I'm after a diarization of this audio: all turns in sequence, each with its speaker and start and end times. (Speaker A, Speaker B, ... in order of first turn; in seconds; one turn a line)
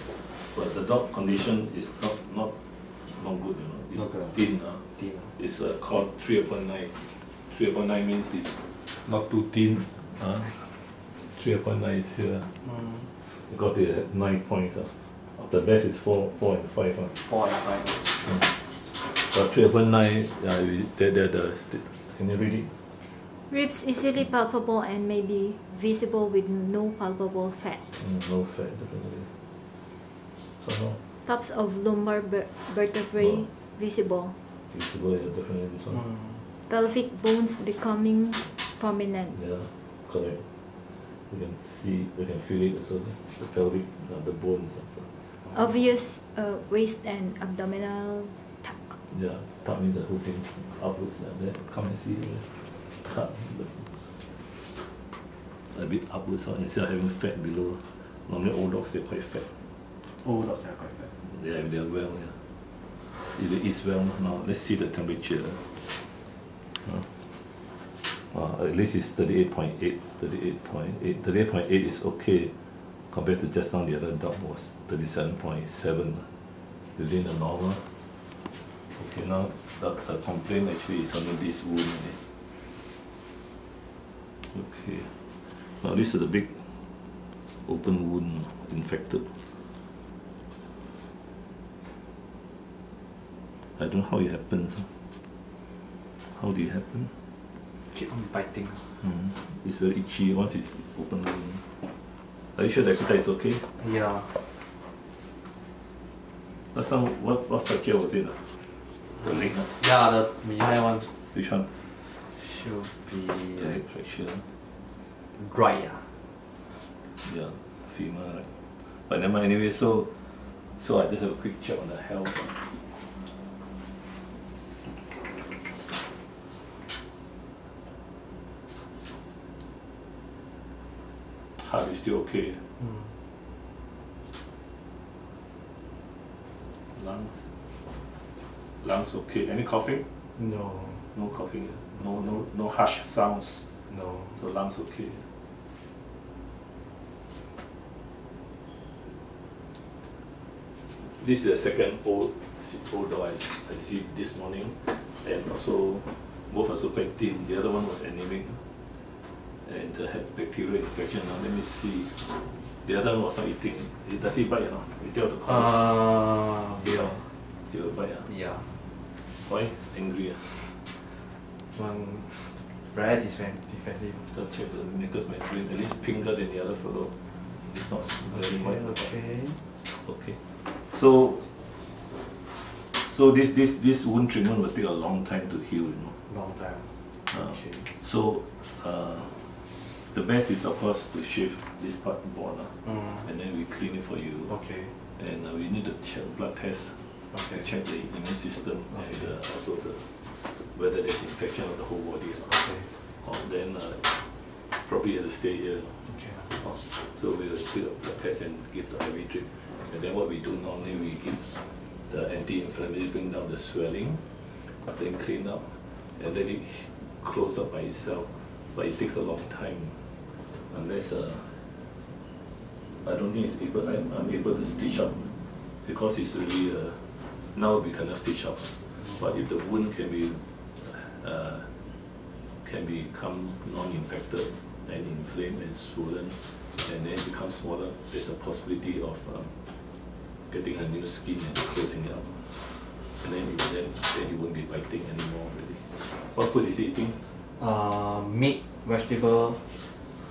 Speaker A: 0.2-12.5
Speaker B: 3.9-5.4
Speaker B: 12.6-13.1
Speaker A: 13.2-17.2
Speaker B: 17.1-18.2
Speaker A: 18.2-23.1
Speaker C: 23.1-28.0
Speaker A: 27.9-29.4
Speaker A: 30.6-31.0
Speaker C: 31.2-34.4
Speaker A: 33.2-33.5
Speaker A: 34.7-36.1
Speaker B: 35.9-36.5
Speaker C: 36.7-39.4
Speaker A: 39.3-45.3
Speaker C: 45.4-49.0
Speaker A: 49.1-54.2
Speaker A: 55.6-59.8
Speaker B: 60.0-61.2
Speaker A: 61.2-62.5
Speaker A: 63.1-66.0
Speaker A: 66.7-76.4
Speaker A: 76.9-78.0
Speaker A: 78.8-82.3
Speaker A: 84.5-89.7
Speaker A: 93.6-95.2
Speaker A: 96.2-97.3
Speaker B: 97.8-99.0
Speaker A: 99.0-103.7
Speaker B: 103.7-104.4
Speaker A: 106.7-109.8
Speaker B: 109.2-111.1
Speaker A: 111.2-111.8
Speaker B: 112.0-113.8
Speaker A: 113.5-114.5
Speaker B: 115.3-116.3
Speaker A: 117.1-122.8
Speaker A: 131.6-132.7
Speaker B: 132.8-133.1
Speaker A: 136.8-137.5
Speaker A: 138.8-140.2
Speaker B: 140.3-141.1
Speaker A: 141.1-145.3
Speaker B: 143.9-144.4
Speaker A: 150.9-166.0
Speaker B: 165.5-167.4
Speaker A: 166.8-168.3
Speaker B: 168.2-168.8
Speaker A: 169.2-170.6
Speaker B: 171.7-174.3
Speaker A: 174.3-181.5
Speaker B: 178.3-179.6
Speaker A: 182.8-186.3
Speaker B: 186.2-187.9
Speaker A: 187.3-221.8
Speaker B: 192.9-193.2
Speaker B: 194.5-195.0
Speaker B: 197.3-197.7
Speaker B: 198.9-199.3
Speaker B: 202.4-203.0
Speaker B: 206.0-206.8
Speaker A: 223.0-231.9
Speaker B: 229.0-229.4
Speaker A: 232.6-247.3
Speaker B: 247.5-249.8